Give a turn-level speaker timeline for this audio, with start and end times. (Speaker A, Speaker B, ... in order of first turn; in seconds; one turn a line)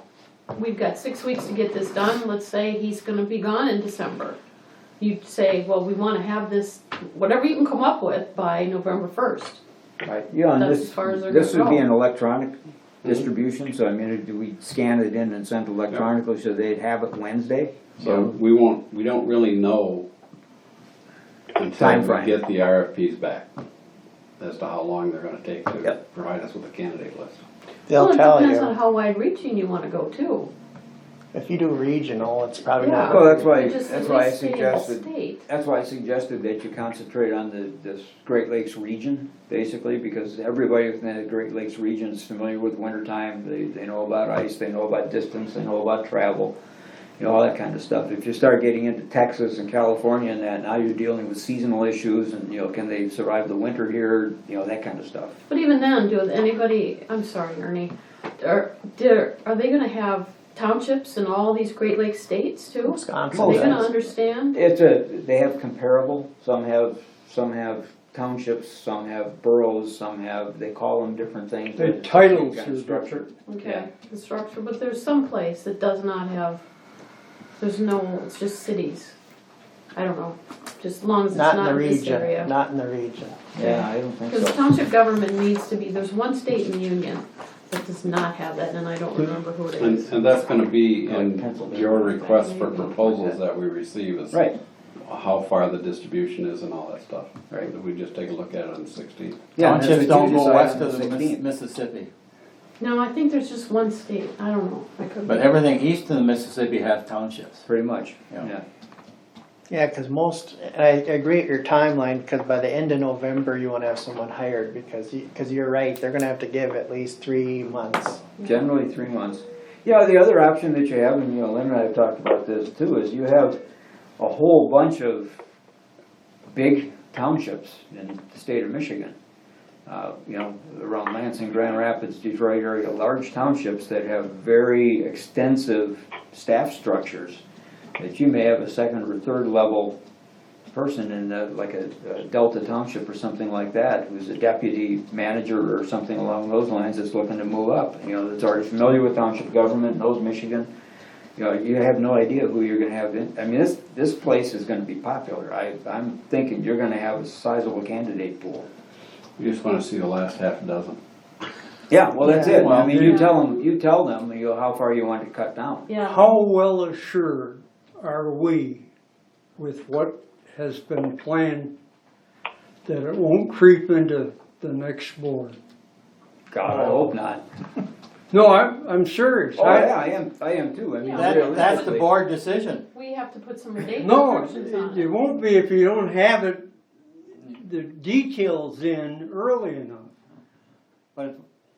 Speaker A: 0.5-4.4
Speaker A: 5.0-9.6
Speaker B: 10.0-18.3
Speaker A: 10.5-11.8
Speaker C: 18.0-20.1
Speaker C: 21.5-23.5
Speaker B: 21.8-22.4
Speaker C: 24.4-27.4
Speaker D: 27.9-28.7
Speaker A: 27.9-30.5
Speaker D: 31.3-33.5
Speaker A: 32.8-35.4
Speaker B: 33.0-46.5
Speaker B: 47.2-55.4
Speaker A: 55.5-64.6
Speaker D: 62.8-63.9
Speaker B: 63.3-63.9
Speaker B: 64.5-73.8
Speaker E: 71.8-73.3
Speaker A: 73.5-76.6
Speaker A: 77.6-79.2
Speaker A: 79.9-82.5
Speaker D: 81.3-83.4
Speaker B: 83.5-84.6
Speaker A: 83.6-90.1
Speaker C: 89.8-94.4
Speaker B: 91.1-93.1
Speaker A: 92.2-92.8
Speaker B: 94.3-94.6
Speaker C: 95.0-99.5
Speaker B: 99.5-101.4
Speaker F: 99.6-102.1
Speaker A: 102.8-105.7
Speaker F: 105.2-107.6
Speaker B: 107.7-108.6
Speaker D: 109.7-118.2
Speaker B: 118.4-123.6
Speaker B: 124.2-125.4
Speaker B: 126.5-129.1
Speaker B: 129.8-137.4
Speaker B: 138.0-140.0
Speaker B: 140.7-150.7
Speaker B: 151.3-158.7
Speaker C: 159.4-161.0
Speaker B: 161.9-165.9
Speaker E: 162.2-163.3
Speaker A: 162.9-163.4
Speaker A: 165.9-166.3
Speaker E: 166.0-168.9
Speaker E: 169.6-171.7
Speaker E: 172.8-175.6
Speaker B: 176.5-177.4
Speaker E: 178.3-180.0
Speaker B: 179.6-182.1
Speaker A: 181.0-182.0
Speaker F: 181.1-182.8
Speaker A: 182.9-185.1
Speaker E: 183.9-186.7
Speaker E: 187.5-190.1
Speaker F: 191.1-191.4